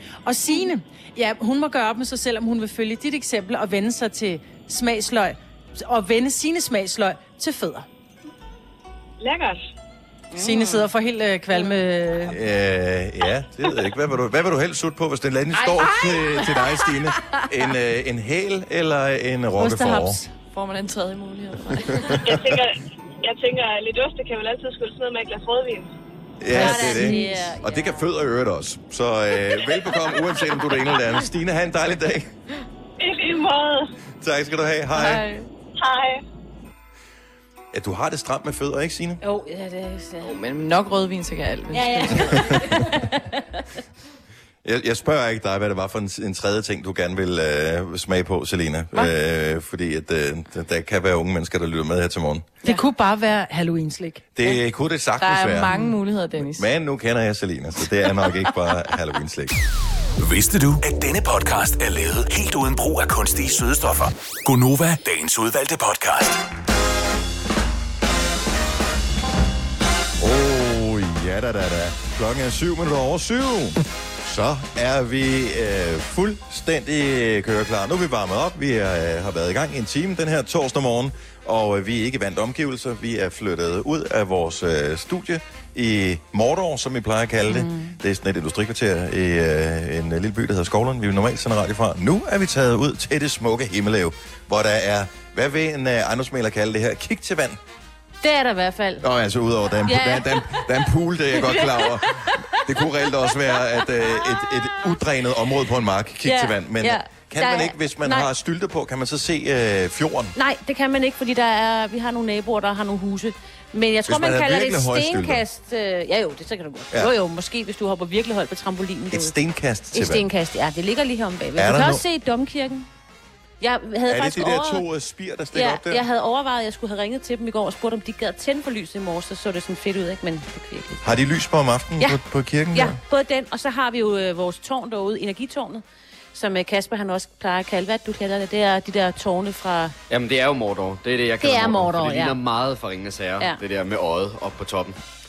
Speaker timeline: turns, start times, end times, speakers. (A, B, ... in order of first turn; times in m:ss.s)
0:00.3-0:07.9 A
0:09.2-0:09.7 B
0:10.3-0:10.9 C
0:10.4-0:12.4 A
0:12.2-0:20.2 D
0:19.6-0:20.3 A
0:20.5-0:22.4 E
0:22.0-0:22.6 D
0:22.2-0:25.9 B
0:26.4-0:32.3 D
0:26.5-0:28.1 C
0:26.5-0:27.4 A
0:33.0-0:33.9 B
0:34.2-0:35.3 D
0:34.9-0:35.5 E
0:35.8-0:36.2 B
0:37.7-0:39.2 D
0:39.2-0:40.4 C
0:40.2-0:42.8 E
0:41.7-0:43.6 C
0:42.2-0:42.7 D
0:44.6-0:52.5 D
0:52.6-0:54.2 A
0:54.4-0:55.7 D
0:55.2-0:56.7 E
0:56.4-0:59.6 D
1:00.2-1:06.4 F
1:10.2-1:37.6 D
1:38.2-1:39.1 C
1:39.0-1:50.4 D
1:39.8-1:44.7 C
1:46.2-1:48.3 C
1:50.4-1:59.4 C
1:54.1-1:55.4 D
1:59.1-2:00.2 D
1:59.9-2:02.9 C
2:01.6-2:02.0 D
2:03.6-2:04.8 C
2:04.1-2:06.0 D
2:05.5-2:11.2 C
2:11.0-2:13.0 D
2:12.7-2:15.8 C
2:16.3-2:20.0 C
2:20.1-2:25.0 G
2:21.4-2:22.4 C